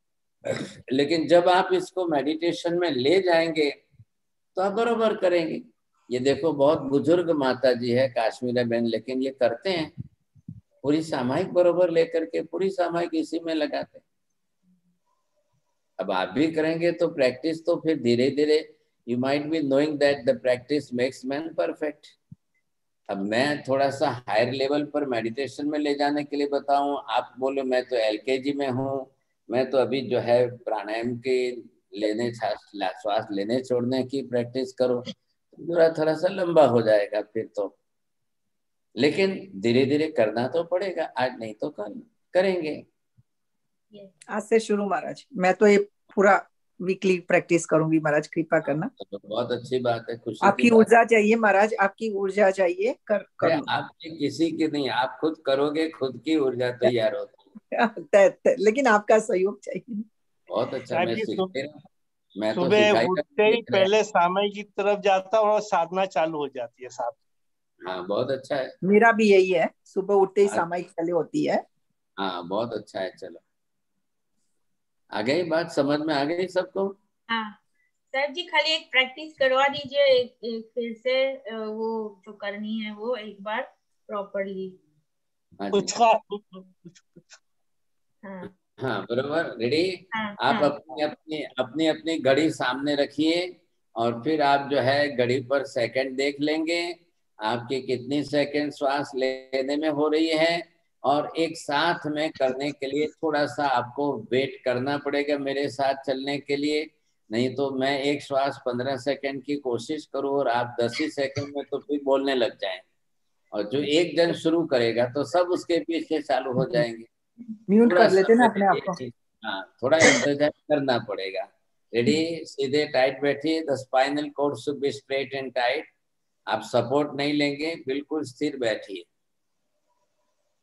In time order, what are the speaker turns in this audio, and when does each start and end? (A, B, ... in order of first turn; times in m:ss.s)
0:00.5-0:03.7 A
0:04.6-0:09.9 A
0:10.8-0:14.0 A
0:16.0-0:22.2 A
0:23.1-0:37.7 A
0:39.0-0:42.8 A
0:44.3-0:48.9 B
0:49.0-0:50.9 A
0:50.4-0:53.7 B
0:53.4-0:57.4 A
0:57.7-1:00.1 B
1:00.5-1:01.8 A
1:00.9-1:01.5 C
1:02.4-1:03.9 A
1:02.6-1:07.2 C
1:07.8-1:08.7 A
1:08.8-1:11.6 B
1:12.2-1:13.4 A
1:15.1-1:16.9 A
1:17.3-1:17.6 D
1:18.1-1:24.8 D
1:25.6-1:25.9 A
1:25.7-1:27.3 C
1:28.2-1:28.5 D
1:28.8-1:52.9 A
1:30.1-1:30.8 D
1:53.5-1:57.1 A
1:56.6-1:56.9 B
1:57.7-1:59.0 B
1:57.8-2:05.9 A
2:06.5-2:09.1 A